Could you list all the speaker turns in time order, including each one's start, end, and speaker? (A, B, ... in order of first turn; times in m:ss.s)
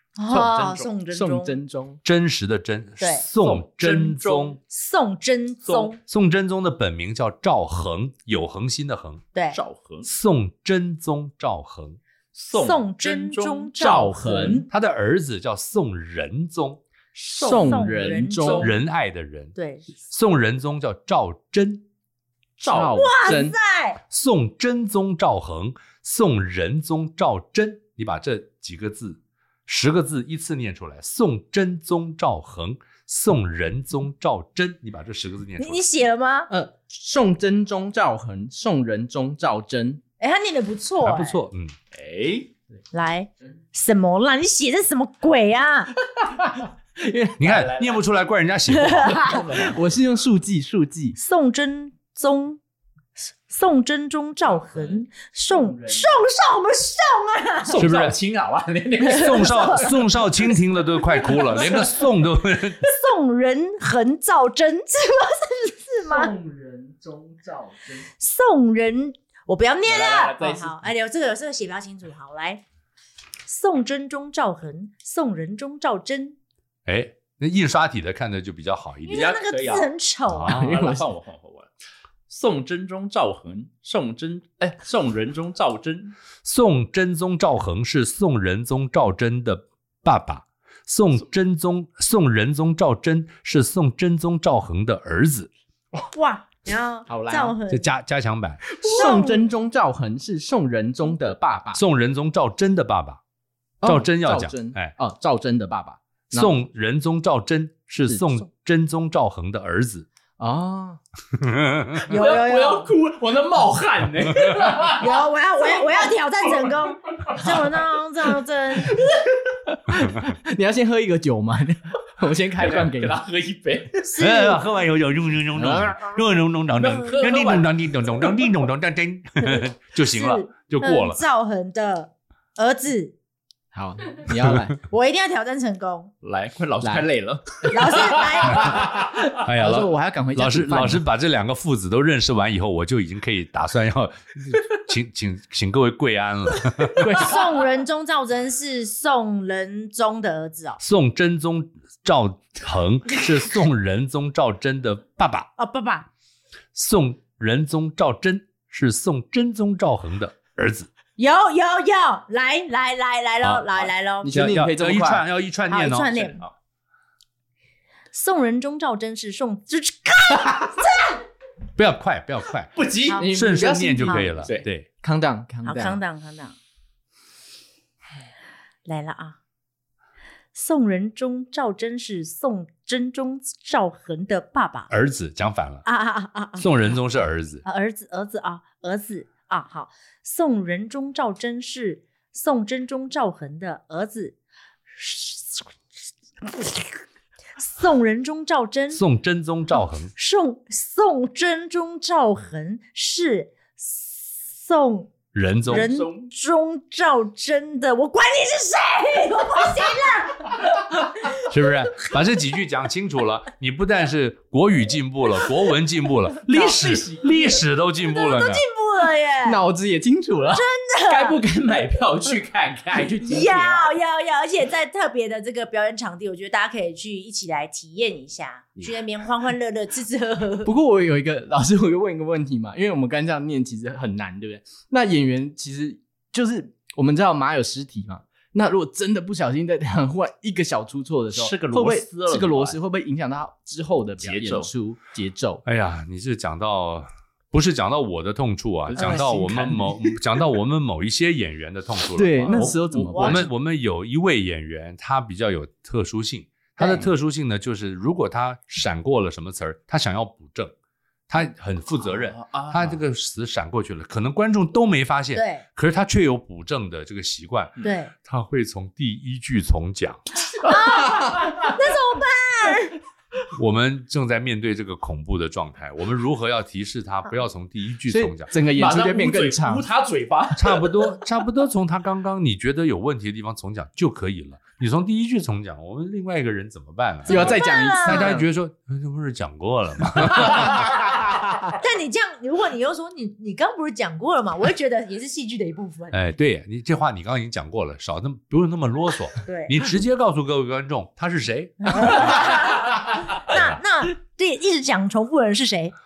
0:00.2-0:01.6 A
0:00.3-0:00.9 B
0:01.1-0:02.0 C
0:02.0-0:04.6 D
0:03.0-0:03.2 A
0:03.4-0:04.6 B
0:04.7-0:06.0 A
0:05.6-0:05.9 B
0:06.1-0:09.2 D
0:09.5-0:10.1 B
0:10.0-0:12.0 D
0:12.3-0:14.6 B
0:12.5-0:14.7 A
0:13.8-0:14.6 C
0:14.7-0:16.8 D
0:17.3-0:18.7 C
0:17.3-0:18.7 A
0:17.3-0:18.7 B
0:18.6-0:21.8 D
0:19.5-0:19.9 A
0:22.6-0:23.1 B
0:22.6-0:23.6 C
0:22.9-0:24.0 A
0:24.1-0:35.8 D
0:35.6-0:36.5 A
0:36.5-0:40.0 C
0:40.2-0:41.4 A
0:41.0-0:41.7 D
0:41.9-0:42.5 B
0:42.9-0:45.9 A
0:47.0-0:47.4 C
0:47.4-0:49.4 D
0:47.4-0:48.0 B
0:48.8-0:49.4 A
0:49.0-0:49.8 B
0:49.5-0:51.2 C
0:51.2-0:52.6 A
0:53.2-0:57.8 A
0:54.6-0:56.2 C
0:57.6-1:00.0 B
0:57.8-0:58.2 D
0:59.1-0:59.8 A
0:59.1-1:02.8 D
1:02.8-1:06.3 A
1:06.1-1:08.1 C
1:08.2-1:12.6 A
1:09.8-1:10.8 B
1:13.5-1:16.4 A
1:16.8-1:19.3 D
1:19.0-1:20.6 A
1:19.1-1:19.9 B
1:20.3-1:20.7 D
1:20.5-1:21.0 C
1:20.5-1:21.7 B
1:22.3-1:26.1 B
1:26.4-1:35.5 D
1:36.1-1:37.9 A
1:37.1-1:37.6 C
1:37.7-1:38.6 D
1:38.7-1:41.8 C
1:38.8-1:39.4 A
1:41.7-1:43.2 D
1:43.8-1:46.5 C
1:43.8-1:44.9 D
1:46.3-1:50.1 D
1:50.4-1:51.0 C
1:51.3-1:52.0 D
1:52.1-1:55.2 B
1:52.1-1:52.9 A
1:54.3-1:54.8 D
1:54.8-1:59.0 A
1:57.3-1:57.7 B
1:58.9-2:03.2 C
2:02.6-2:04.1 B
2:04.1-2:04.6 A
2:04.2-2:11.2 D
2:05.5-2:06.0 C
2:06.7-2:08.4 B
2:09.4-2:13.2 A
2:13.7-2:14.8 C
2:14.9-2:16.1 A
2:16.2-2:19.1 B
2:17.7-2:18.8 A
2:18.6-2:21.0 C
2:19.4-2:27.2 D
2:27.0-2:27.5 C
2:27.1-2:30.8 A
2:30.8-2:35.5 D
2:35.6-2:36.1 A
2:36.7-2:40.9 D
2:41.2-2:44.4 A
2:43.4-2:46.1 D
2:44.2-2:45.2 C
2:45.7-2:46.4 A
2:46.1-2:46.5 B
2:48.1-2:51.2 A
2:51.8-2:52.7 D
2:52.7-2:53.3 B
2:53.0-2:53.4 A
2:53.1-2:54.5 C
2:53.3-2:54.9 D
2:54.0-2:54.3 A
2:55.0-2:56.0 C
2:55.6-2:56.6 A
2:58.8-2:59.4 A
3:00.5-3:04.9 A
3:04.9-3:05.8 D
3:05.8-3:06.7 A
3:06.6-3:07.6 D
3:07.6-3:14.4 A
3:14.9-3:15.7 A
3:16.4-3:16.9 A
3:17.6-3:19.0 A
3:18.9-3:20.1 D
3:20.1-3:25.1 A
3:25.3-3:25.9 D
3:25.7-3:30.6 A
3:25.7-3:26.3 B
3:31.4-3:38.6 D
3:36.5-3:37.5 B
3:38.0-3:39.6 A
3:39.4-3:40.6 C
3:40.5-3:41.4 A
3:41.1-3:43.9 B
3:43.2-3:50.7 A
3:50.6-4:05.6 C
4:01.3-4:02.8 B
4:04.2-4:04.7 B
4:05.6-4:20.7 D
4:08.9-4:09.8 B
4:09.0-4:09.8 C
4:12.1-4:13.5 C
4:12.4-4:13.4 A
4:16.8-4:17.1 A
4:21.3-4:30.2 D
4:22.1-4:23.0 B
4:25.3-4:25.6 A
4:27.8-4:28.1 A
4:30.6-4:31.7 B
4:30.6-4:33.0 A
4:33.5-4:38.5 D
4:38.1-4:39.9 C
4:38.6-4:40.9 B
4:40.6-4:50.9 D
4:47.2-4:48.4 A
4:47.2-4:48.4 C
4:50.4-4:50.7 B
4:51.7-4:56.2 A
4:56.1-5:02.6 D
4:59.4-4:59.8 A
5:01.9-5:05.9 A
5:03.5-5:03.8 D